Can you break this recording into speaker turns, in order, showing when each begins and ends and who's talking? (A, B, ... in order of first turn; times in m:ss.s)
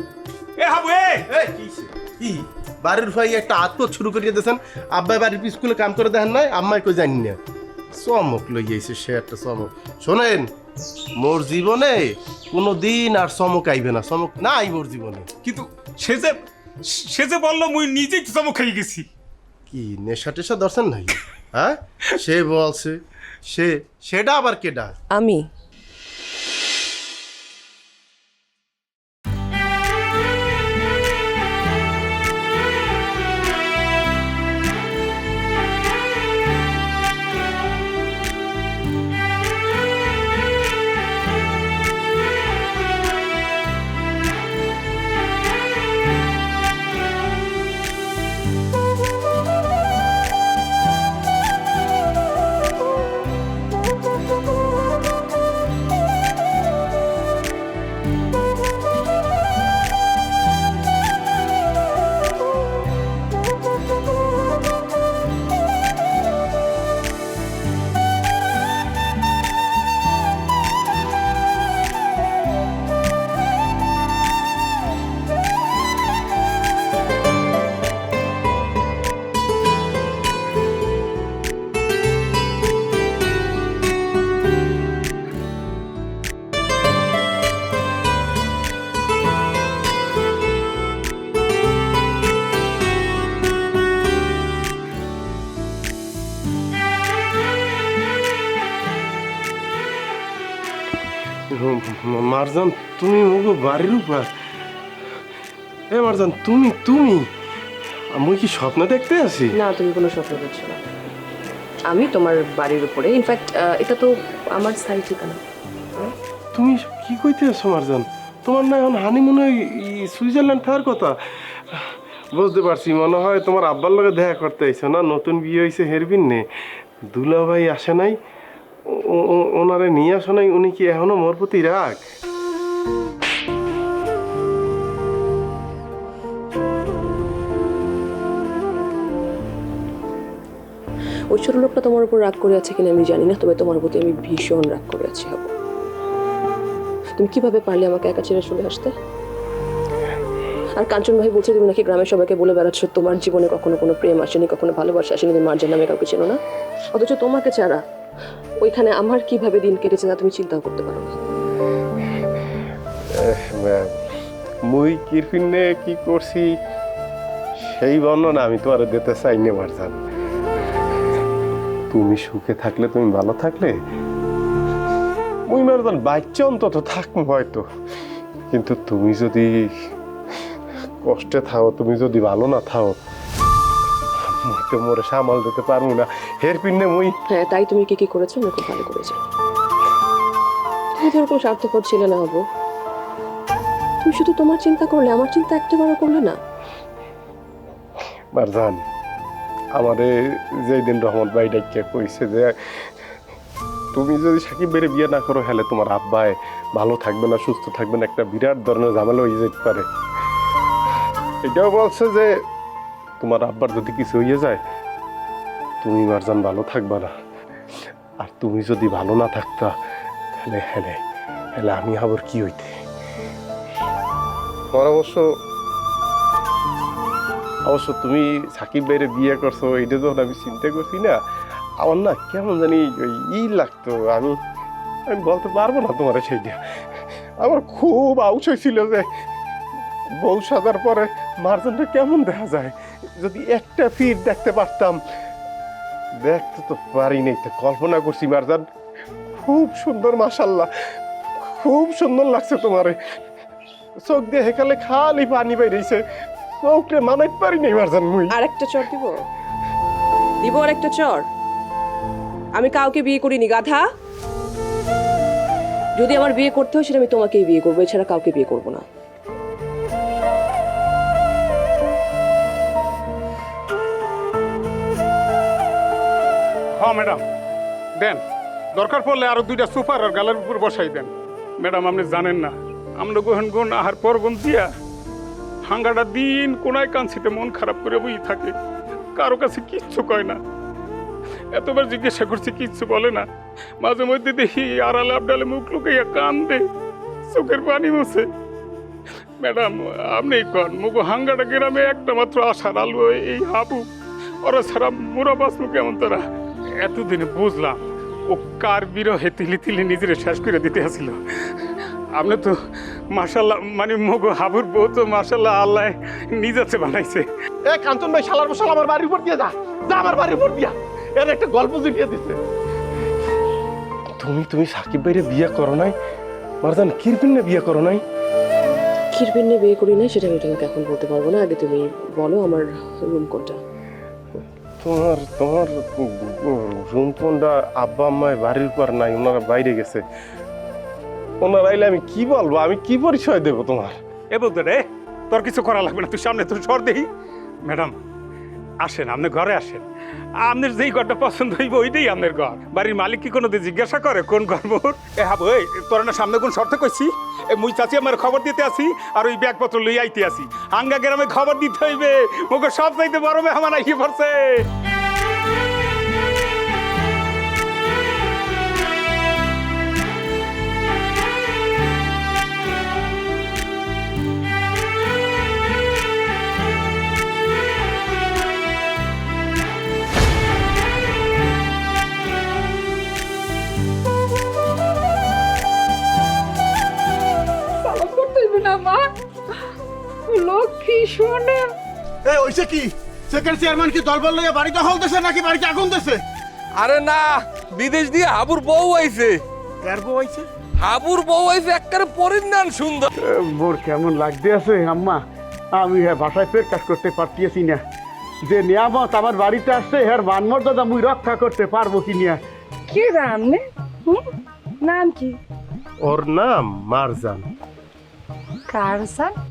0:00.6-0:01.3 A
0:01.4-0:07.4 B
0:08.0-0:10.5 B
0:11.2-0:15.3 B
0:15.4-0:19.1 A
0:19.7-0:25.0 B
1:41.6-1:44.3 B
1:45.9-1:47.3 B
1:48.2-1:49.6 B
1:49.6-1:50.8 C
1:51.9-1:55.4 C
1:56.6-2:01.2 B
2:01.7-2:06.4 B
2:07.1-2:08.2 B
2:08.9-2:12.0 B
2:21.3-2:25.5 C
2:27.2-2:28.9 C
2:30.8-2:36.4 C
2:37.0-2:37.8 C
2:38.6-2:41.1 C
2:43.2-2:44.0 B
2:44.7-2:46.5 B
2:47.6-2:50.0 B
2:51.9-2:53.7 B
2:55.5-2:57.6 B
2:58.5-2:59.5 B
3:01.0-3:02.9 B
3:04.3-3:07.1 B
3:07.3-3:09.2 C
3:11.0-3:12.4 C
3:14.0-3:16.4 C
3:18.3-3:18.8 B
3:19.8-3:20.1 B
3:20.6-3:22.8 B
3:23.9-3:29.9 B
3:31.4-3:32.3 B
3:33.2-3:34.6 B
3:35.8-3:37.1 B
3:38.2-3:39.8 B
3:40.3-3:41.0 B
3:41.6-3:42.8 B
3:44.7-3:45.3 B
3:47.7-3:51.2 B
3:51.8-3:54.4 B
3:55.1-3:56.6 B
3:57.4-3:59.1 B
4:00.2-4:05.0 B
4:06.2-4:08.6 B
4:09.3-4:10.7 B
4:11.4-4:13.0 B
4:14.1-4:16.0 B
4:16.6-4:18.4 B
4:18.4-4:18.7 C
4:26.8-4:28.8 C
4:36.8-4:37.2 A
4:38.8-4:44.7 A
4:45.7-4:48.5 A
4:49.2-4:50.4 A
4:51.5-4:53.3 A
4:53.8-4:56.6 A
4:57.3-4:58.3 A
4:59.4-5:03.9 A
5:04.4-5:06.2 A
5:06.8-5:11.6 A
5:12.2-5:12.6 A
5:13.1-5:17.3 A
5:17.8-5:20.7 B
5:21.2-5:22.4 B
5:24.2-5:26.0 B
5:26.6-5:28.0 B
5:29.1-5:33.6 C
5:34.8-5:40.0 B
5:41.4-5:44.0 B
5:44.3-5:47.1 A
5:47.6-5:47.9 A
5:48.8-5:49.8 A
5:50.4-6:04.7 A
6:27.8-6:29.1 D
6:30.3-6:31.7 D
6:32.4-6:32.8 E
6:33.3-6:36.1 E
6:36.9-6:37.2 D
6:37.8-6:39.3 D
6:40.9-6:43.0 D
6:44.3-6:45.0 F
6:46.8-6:47.6 F
6:48.9-6:52.3 F
6:52.9-6:54.2 D
6:54.8-6:55.4 D
6:56.0-6:57.5 B
6:58.7-6:59.3 D